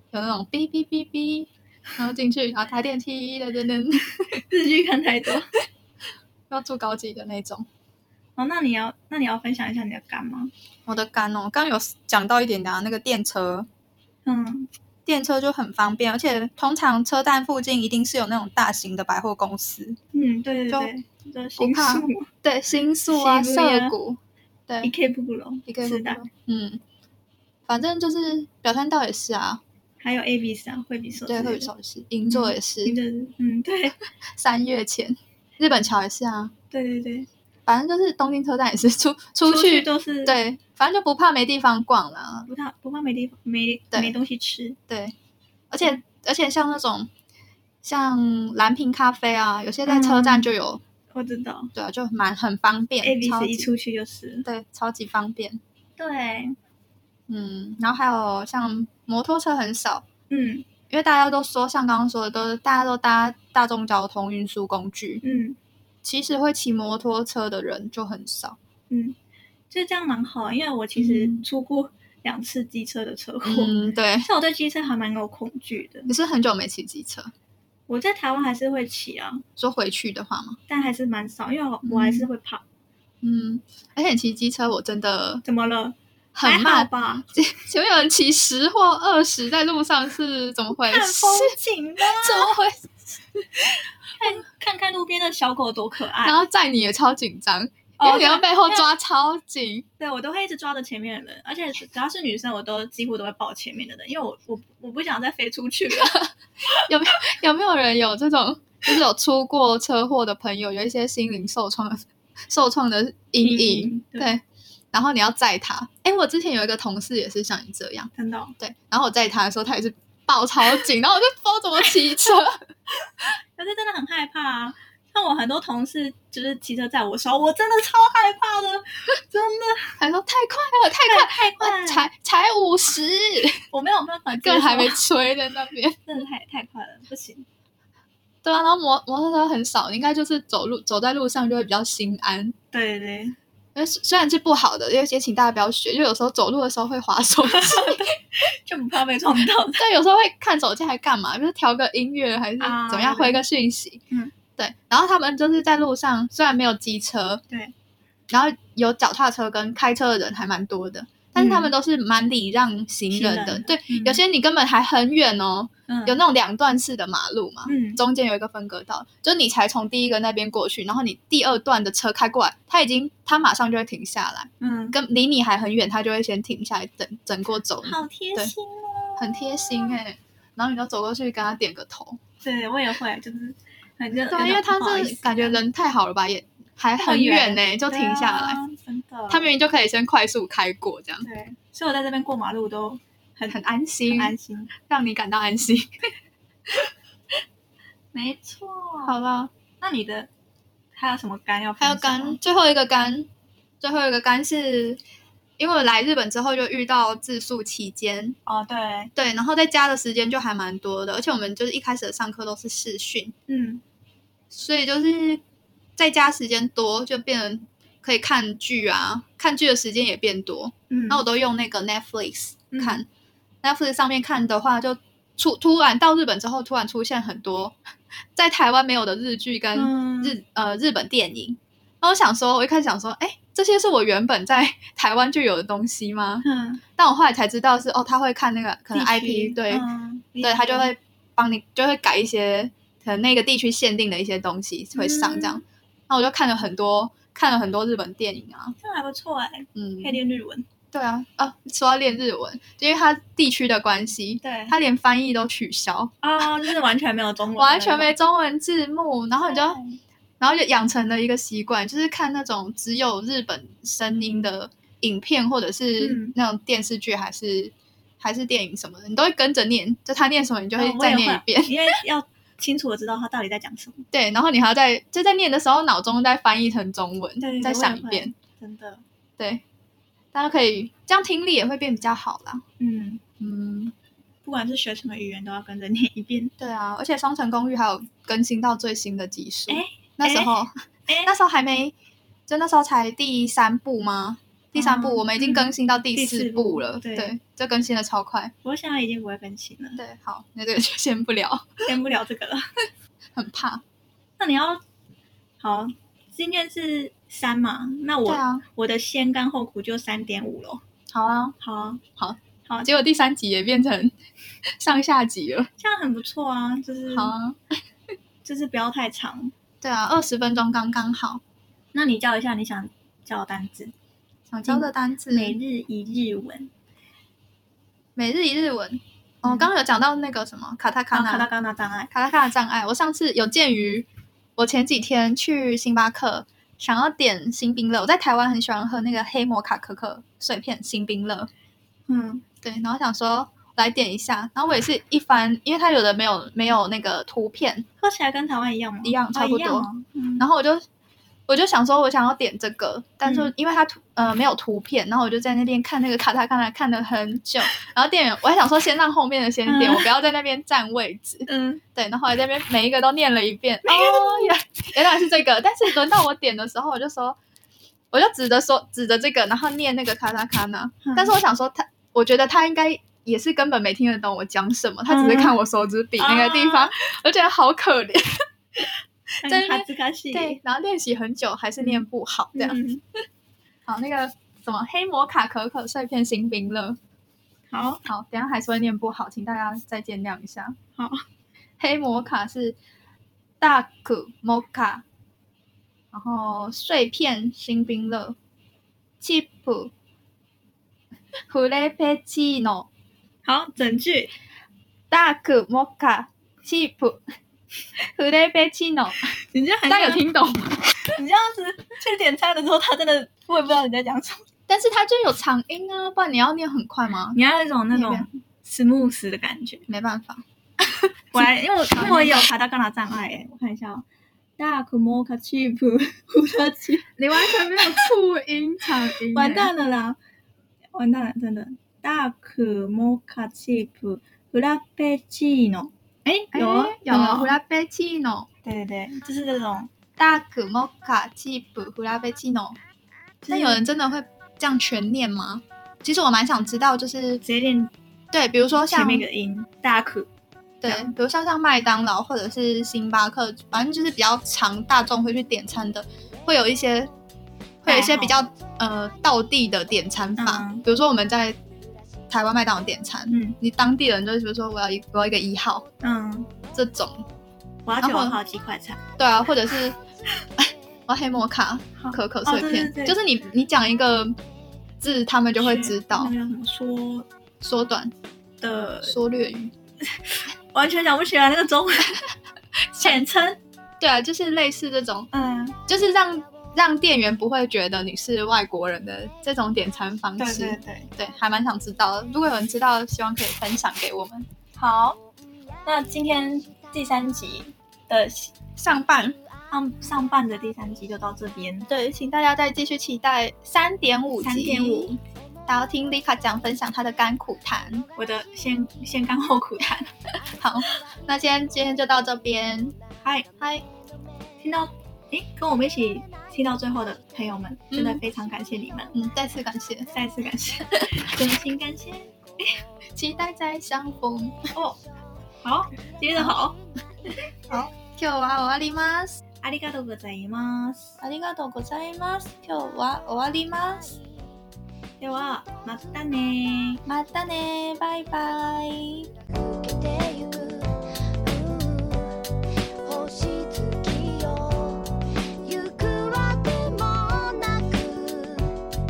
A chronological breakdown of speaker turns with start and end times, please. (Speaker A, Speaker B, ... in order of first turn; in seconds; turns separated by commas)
Speaker A: 0.1-4.4, Speaker B: 4.3-5.5, Speaker A: 6.5-7.7, Speaker B: 8.4-10.5, Speaker A: 10.8-13.7, Speaker B: 14.2-14.7, Speaker A: 15.1-20.0, Speaker B: 20.1-22.3, Speaker A: 21.6-24.9, Speaker B: 23.1-23.9, Speaker B: 24.8-26.2, Speaker A: 25.7-26.8, Speaker A: 27.7-29.6, Speaker B: 30.0-31.7, Speaker A: 31.3-33.0, Speaker B: 32.3-34.0, Speaker A: 34.3-36.5, Speaker B: 36.7-37.3, Speaker A: 37.6-42.5, Speaker B: 39.4-40.4, Speaker B: 42.5-44.8, Speaker A: 44.9-45.1, Speaker A: 45.7-47.1, Speaker A: 47.8-50.8, Speaker B: 49.9-50.5, Speaker B: 51.1-51.7, Speaker A: 51.7-53.7, Speaker B: 53.0-54.5, Speaker A: 54.4-55.6, Speaker B: 56.0-56.6, Speaker A: 57.3-60.0, Speaker B: 60.3-60.7, Speaker A: 60.9-65.2, Speaker B: 65.2-65.6, Speaker A: 66.0-68.6, Speaker B: 68.9-69.2, Speaker B: 69.7-76.1, Speaker A: 71.0-71.4, Speaker A: 73.4-74.3, Speaker A: 76.1-77.3, Speaker B: 77.9-79.4, Speaker A: 79.6-80.6, Speaker B: 80.7-82.6, Speaker A: 81.8-82.3, Speaker A: 83.2-85.4, Speaker B: 85.4-87.2, Speaker A: 86.3-93.6, Speaker B: 90.7-92.5, Speaker B: 94.2-96.4, Speaker A: 96.2-99.8, Speaker B: 98.0-98.9, Speaker B: 100.0-106.2, Speaker A: 105.9-106.3, Speaker A: 106.8-122.7, Speaker B: 113.4-114.3, Speaker B: 118.1-118.5, Speaker B: 123.6-130.0, Speaker A: 130.0-133.6, Speaker B: 131.0-132.1, Speaker B: 133.7-135.0, Speaker A: 134.4-136.0, Speaker B: 136.1-137.4, Speaker A: 138.4-142.5, Speaker B: 142.7-143.3, Speaker A: 143.7-148.0, Speaker B: 147.5-149.8, Speaker A: 149.8-154.0, Speaker B: 152.6-153.4, Speaker A: 154.6-157.4, Speaker A: 158.3-178.5, Speaker B: 161.3-161.7, Speaker B: 163.1-164.2, Speaker B: 165.9-166.2, Speaker B: 167.7-168.0, Speaker B: 174.6-175.0, Speaker B: 177.8-180.0, Speaker A: 179.2-182.2, Speaker B: 182.4-185.6, Speaker A: 184.3-188.6, Speaker B: 187.0-189.5, Speaker A: 189.3-191.2, Speaker B: 191.2-194.7, Speaker A: 193.5-195.9, Speaker B: 198.1-199.1, Speaker A: 199.0-199.5, Speaker B: 199.8-200.3, Speaker B: 200.9-202.4, Speaker A: 201.8-203.3, Speaker A: 203.8-205.0, Speaker A: 205.6-208.3, Speaker B: 208.4-209.1, Speaker A: 209.1-213.3, Speaker B: 213.5-213.8, Speaker A: 214.5-215.4, Speaker A: 216.0-223.1, Speaker B: 220.9-221.2, Speaker B: 222.7-223.0, Speaker A: 223.6-227.8, Speaker A: 228.3-236.4, Speaker B: 229.7-230.3, Speaker B: 236.4-236.8, Speaker A: 236.9-239.8, Speaker B: 238.9-240.9, Speaker A: 240.4-248.7, Speaker B: 244.9-245.6, Speaker B: 248.8-250.7, Speaker A: 249.7-250.2, Speaker A: 250.9-256.1, Speaker B: 254.4-254.7, Speaker B: 256.2-258.1, Speaker A: 257.6-259.8, Speaker B: 259.4-260.0, Speaker A: 260.4-272.0, Speaker B: 266.0-266.3, Speaker B: 270.8-274.0, Speaker A: 274.1-278.3, Speaker B: 277.4-279.0, Speaker A: 280.3-282.6, Speaker B: 282.8-283.2, Speaker A: 283.4-283.9, Speaker B: 284.4-286.5, Speaker A: 286.6-291.9, Speaker B: 289.7-290.5, Speaker B: 291.1-291.4, Speaker A: 292.5-298.5, Speaker B: 294.8-297.3, Speaker B: 298.6-300.0, Speaker A: 300.0-301.9, Speaker B: 301.8-302.7, Speaker A: 303.4-303.8, Speaker B: 304.4-304.8, Speaker B: 305.6-310.8, Speaker A: 308.2-308.6, Speaker A: 311.1-311.5, Speaker B: 311.6-312.0, Speaker A: 312.2-314.1, Speaker A: 314.8-315.7, Speaker B: 315.8-317.3, Speaker A: 317.1-317.6, Speaker B: 318.4-319.5, Speaker A: 319.8-321.4, Speaker B: 321.9-323.9, Speaker A: 324.5-325.6, Speaker B: 324.7-326.7, Speaker A: 328.1-331.5, Speaker B: 331.1-332.1, Speaker A: 332.1-341.5, Speaker B: 342.1-342.4, Speaker A: 342.6-347.9, Speaker B: 348.0-350.4, Speaker A: 349.0-349.9, Speaker A: 350.4-350.9, Speaker A: 351.5-367.4, Speaker B: 353.2-353.5, Speaker B: 359.6-360.1, Speaker B: 361.5-361.8, Speaker B: 363.9-364.5, Speaker A: 368.1-378.8, Speaker B: 371.0-371.3, Speaker B: 375.1-375.6, Speaker B: 376.2-376.9, Speaker B: 379.4-380.6, Speaker A: 379.4-382.8, Speaker B: 382.5-383.0, Speaker A: 383.9-387.0, Speaker B: 387.7-388.0, Speaker A: 388.1-390.8, Speaker B: 390.9-391.2, Speaker A: 391.8-392.8, Speaker A: 393.6-395.0, Speaker A: 396.1-398.4, Speaker A: 399.2-399.9, Speaker A: 401.5-402.9, Speaker B: 403.4-404.3, Speaker A: 405.1-407.2, Speaker A: 408.0-409.3, Speaker B: 409.4-410.2, Speaker A: 409.9-411.0, Speaker B: 411.1-414.4, Speaker A: 414.7-417.4, Speaker B: 417.3-419.8, Speaker A: 417.9-418.3, Speaker A: 419.9-422.5, Speaker B: 421.3-424.1, Speaker B: 424.6-428.1, Speaker A: 427.2-429.7, Speaker B: 429.3-430.2, Speaker B: 430.9-437.5, Speaker A: 436.5-438.5, Speaker B: 438.6-439.9, Speaker A: 440.2-442.8, Speaker B: 443.4-443.8, Speaker A: 443.5-447.4, Speaker B: 447.4-447.9, Speaker A: 448.3-449.2, Speaker B: 448.9-450.3, Speaker A: 450.8-457.1, Speaker B: 450.8-451.1, Speaker A: 457.8-461.6, Speaker B: 457.9-458.3, Speaker B: 460.4-460.8, Speaker A: 462.3-465.8, Speaker B: 463.3-463.6, Speaker B: 466.0-466.5, Speaker A: 466.7-467.2, Speaker B: 467.9-469.0, Speaker A: 468.0-468.4, Speaker A: 469.2-470.0, Speaker A: 470.6-474.4, Speaker B: 472.0-473.2, Speaker A: 475.0-476.3, Speaker B: 475.6-477.3, Speaker A: 477.6-478.1, Speaker B: 478.6-479.2, Speaker A: 479.0-479.7, Speaker B: 480.0-482.2, Speaker B: 483.0-483.6, Speaker A: 484.0-485.3, Speaker B: 485.3-485.8, Speaker A: 485.9-494.5, Speaker B: 490.4-491.1, Speaker B: 494.7-495.2, Speaker B: 495.8-498.5, Speaker A: 498.8-499.4, Speaker B: 499.7-501.9, Speaker A: 501.9-505.1, Speaker B: 504.4-505.2, Speaker A: 505.6-508.1, Speaker B: 508.1-510.1, Speaker A: 510.5-512.9, Speaker A: 513.6-513.9, Speaker B: 514.6-519.1, Speaker A: 517.9-518.2, Speaker A: 519.1-520.1, Speaker B: 520.1-522.7, Speaker A: 523.1-524.6, Speaker B: 524.7-525.0, Speaker B: 525.6-526.8, Speaker A: 527.7-529.4, Speaker B: 529.6-531.1, Speaker A: 531.2-534.2, Speaker B: 535.2-537.0, Speaker A: 537.0-539.3, Speaker C: 539.5-542.4, Speaker C: 543.0-548.8